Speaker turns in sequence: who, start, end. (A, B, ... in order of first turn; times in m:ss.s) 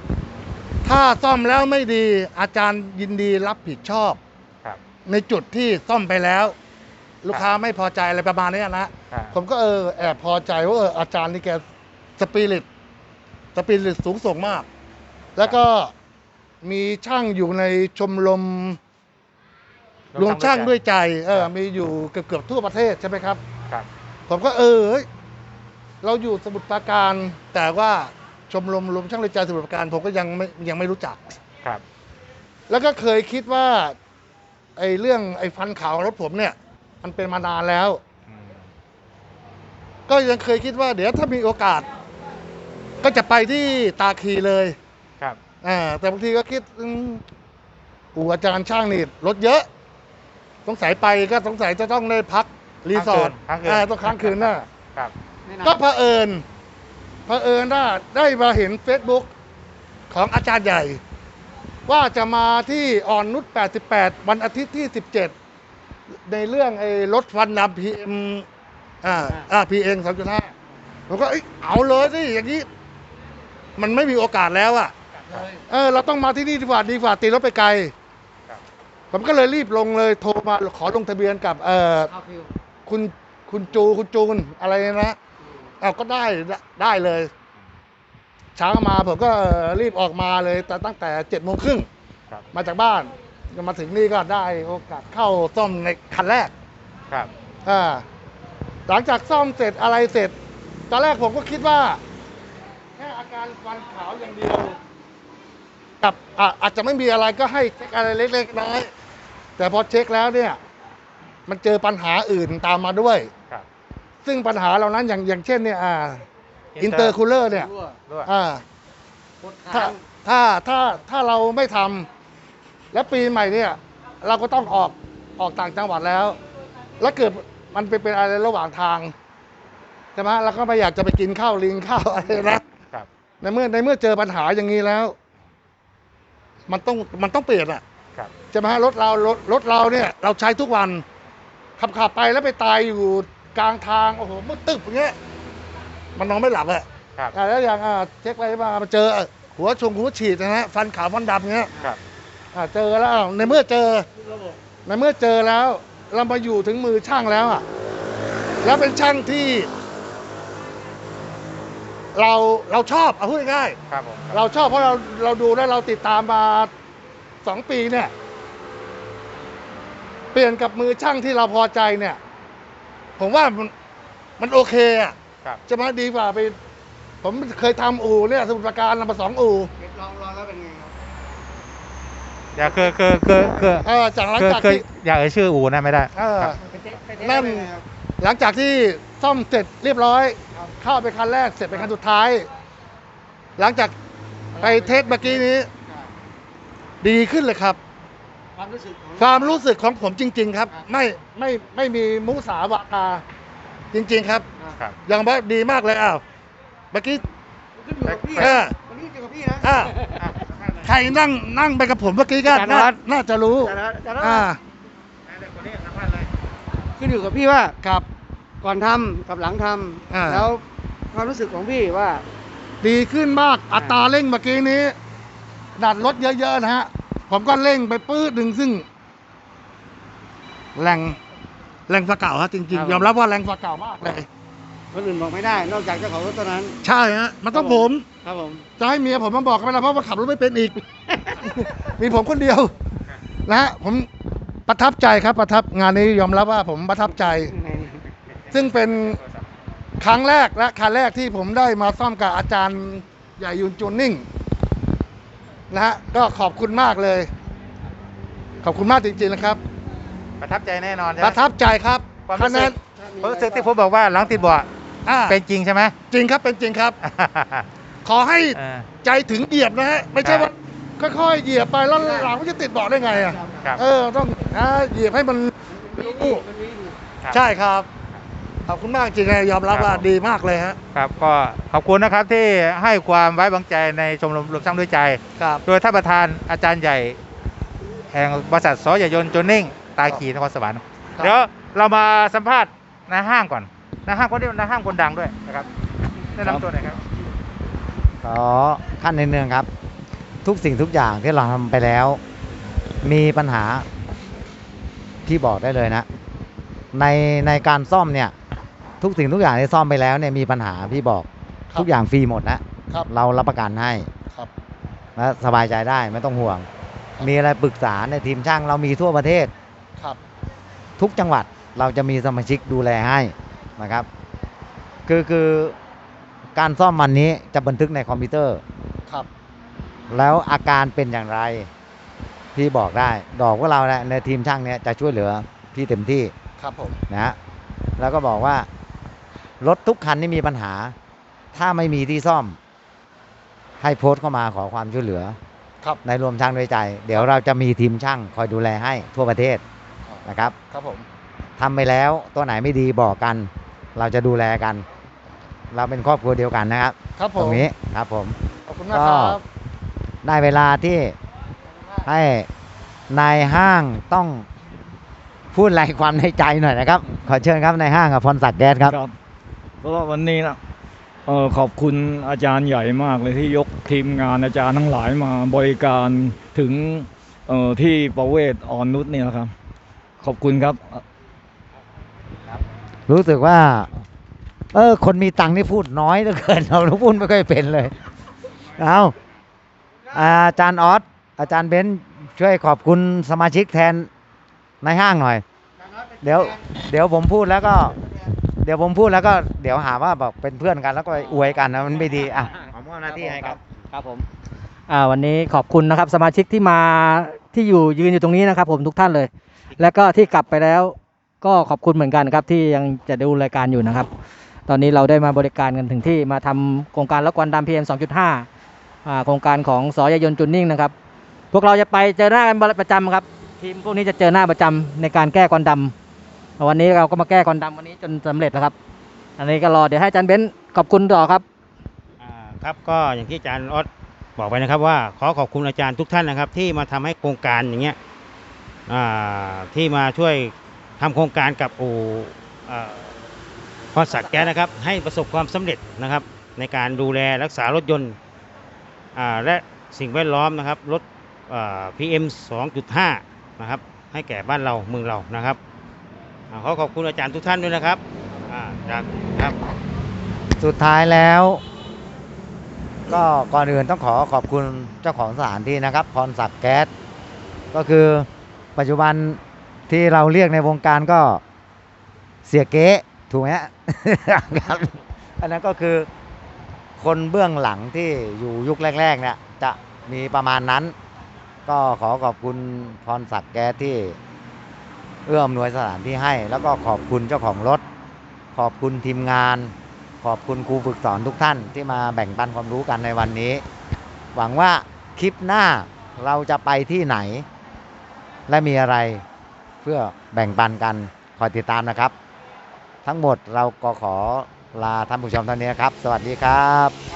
0:00.8-0:04.2 A
0:05.1-0:06.6 A
0:07.2-0:11.6 A
0:09.1-0:09.3 B
0:12.2-0:12.6 A
0:13.6-0:14.7 A
0:15.4-0:15.9 A
0:16.6-0:18.8 A
0:20.1-0:20.8 B
0:20.2-0:23.4 A
0:24.3-0:25.1 A
0:26.0-0:31.3 A
0:32.7-0:34.0 A
0:34.8-0:38.0 A
0:38.3-0:38.6 B
0:40.1-0:41.9 A
0:43.0-0:44.8 A
0:45.6-0:47.2 A
0:48.1-0:49.6 A
0:50.6-0:54.7 A
0:52.9-0:55.1 B
0:55.5-0:55.8 C
0:55.6-0:56.4 A
0:57.2-0:59.3 A
1:00.1-1:01.0 A
1:01.9-1:05.3 A
1:06.2-1:08.4 A
1:09.0-1:10.5 A
1:11.1-1:12.7 A
1:13.8-1:17.9 A
1:15.2-1:15.4 B
1:19.1-1:22.1 A
1:22.1-1:22.5 C
1:22.9-1:25.2 A
1:25.8-1:27.3 A
1:28.6-1:31.9 A
1:32.5-1:36.5 A
1:37.6-1:38.0 A
1:38.9-1:40.3 A
1:40.9-1:42.0 A
1:43.0-1:44.8 A
1:46.0-1:48.9 A
1:49.6-1:50.6 A
1:51.5-1:53.3 A
1:54.2-1:56.2 A
1:56.8-1:57.1 B
1:56.8-1:57.7 A
1:58.2-1:58.6 A
1:59.4-2:00.0 C
1:59.7-2:02.1 A
2:02.9-2:06.4 A
2:07.0-2:09.1 A
2:10.2-2:12.6 A
2:13.4-2:15.1 A
2:16.7-2:17.8 A
2:18.5-2:21.0 A
2:21.8-2:25.2 A
2:26.2-2:31.7 A
2:32.5-2:34.1 A
2:34.2-2:34.6 C
2:34.8-2:37.6 A
2:38.6-2:39.7 A
2:42.2-2:43.8 A
2:43.9-2:44.4 B
2:44.3-2:46.7 A
2:47.4-2:48.1 A
2:50.3-2:52.2 A
2:53.2-2:53.7 A
2:54.4-2:55.2 A
2:55.7-2:56.6 A
2:57.2-2:59.7 A
2:59.8-3:00.9 C
3:02.6-3:06.6 B
3:03.8-3:04.8 A
3:06.1-3:06.6 A
3:06.6-3:07.8 C
3:07.2-3:12.5 A
3:13.6-3:13.9 A
3:14.6-3:16.0 C
3:14.6-3:15.7 A
3:17.0-3:17.8 A
3:18.6-3:19.7 C
3:19.2-3:23.2 A
3:23.9-3:24.4 A
3:25.0-3:26.2 A
3:26.9-3:27.2 A
3:27.8-3:30.2 C
3:28.0-3:28.5 B
3:28.4-3:28.7 A
3:29.6-3:29.9 A
3:30.2-3:30.8 B
3:30.8-3:34.6 A
3:32.4-3:33.0 C
3:33.6-3:34.5 C
3:35.3-3:36.3 B
3:37.0-3:37.8 C
3:38.6-3:42.2 C
3:40.1-3:40.5 A
3:42.8-3:45.0 A
3:43.7-3:44.0 C
3:45.8-3:48.8 A
3:50.8-3:51.2 A
3:51.9-3:54.3 A
3:52.7-3:53.1 C
3:54.9-3:56.8 C
3:56.8-3:58.1 A
3:57.5-3:58.7 C
3:58.8-4:00.8 A
4:01.4-4:01.7 C
4:01.9-4:02.7 A
4:03.5-4:04.1 A
4:04.7-4:07.5 A
4:07.0-4:08.0 C
4:08.5-4:09.2 A
4:08.6-4:09.4 B
4:10.0-4:14.3 A
4:15.7-4:17.3 A
4:18.6-4:19.6 A
4:20.4-4:21.4 B
4:21.2-4:22.8 A
4:22.3-4:24.7 B
4:23.3-4:23.6 C
4:25.1-4:25.4 A
4:25.3-4:25.9 B
4:26.1-4:27.0 A
4:27.0-4:27.7 B
4:28.0-4:36.5 A
4:28.6-4:28.9 B
4:30.2-4:30.5 B
4:31.9-4:32.3 C
4:32.9-4:33.4 C
4:35.7-4:37.0 C
4:37.3-4:37.9 A
4:38.7-4:40.8 A
4:39.7-4:40.0 B
4:40.9-4:47.2 B
4:45.4-4:45.6 A
4:48.1-4:55.7 B
4:56.4-4:57.0 B
4:58.2-4:59.7 D
5:00.4-5:02.2 D
5:03.0-5:03.8 D
5:05.3-5:06.1 D
5:06.9-5:08.3 D
5:09.0-5:14.1 D
5:15.2-5:16.7 D
5:17.2-5:19.5 D
5:21.0-5:24.1 D
5:25.1-5:25.7 D
5:26.6-5:28.6 D
5:30.1-5:31.7 D
5:32.6-5:36.3 D
5:36.6-5:37.0 A
5:37.1-5:37.4 D
5:38.0-5:38.7 D
5:39.6-5:40.9 D
5:41.5-5:42.6 D
5:43.8-5:45.4 D
5:46.0-5:49.6 D
5:50.1-5:51.1 A
5:50.2-5:50.6 D
5:51.6-5:54.8 D
5:55.7-5:58.4 D
5:57.2-5:57.6 A
5:58.7-5:59.4 A
5:58.9-5:59.4 D
6:00.2-6:01.2 D
6:02.0-6:02.5 D
6:03.1-6:04.4 D
6:05.5-6:09.0 D
6:08.8-6:09.1 E
6:09.8-6:10.6 E
6:11.3-6:19.5 E
6:20.2-6:21.0 E
6:23.1-6:23.9 D
6:24.7-6:27.9 D
6:28.7-6:29.2 D
6:30.1-6:34.1 D
6:34.8-6:35.4 D
6:36.2-6:38.0 D
6:38.6-6:43.6 D
6:43.1-6:44.3 F
6:44.9-6:54.1 F
6:54.7-6:58.4 F
6:59.1-7:00.9 F
7:01.5-7:05.9 F
7:06.6-7:08.7 F
7:09.4-7:11.4 F
7:12.2-7:18.0 G
7:18.9-7:23.1 G
7:23.9-7:28.2 G
7:29.2-7:35.6 G
7:36.5-7:39.6 G
7:40.6-7:41.6 D
7:43.1-7:46.9 D
7:47.7-7:51.4 D
7:52.4-7:56.1 D
7:57.0-8:00.9 D
8:01.7-8:04.2 D
8:05.3-8:07.8 D
8:08.6-8:13.6 D
8:14.3-8:17.4 D
8:18.5-8:19.2 D
8:19.8-8:22.1 D
8:23.0-8:26.9 D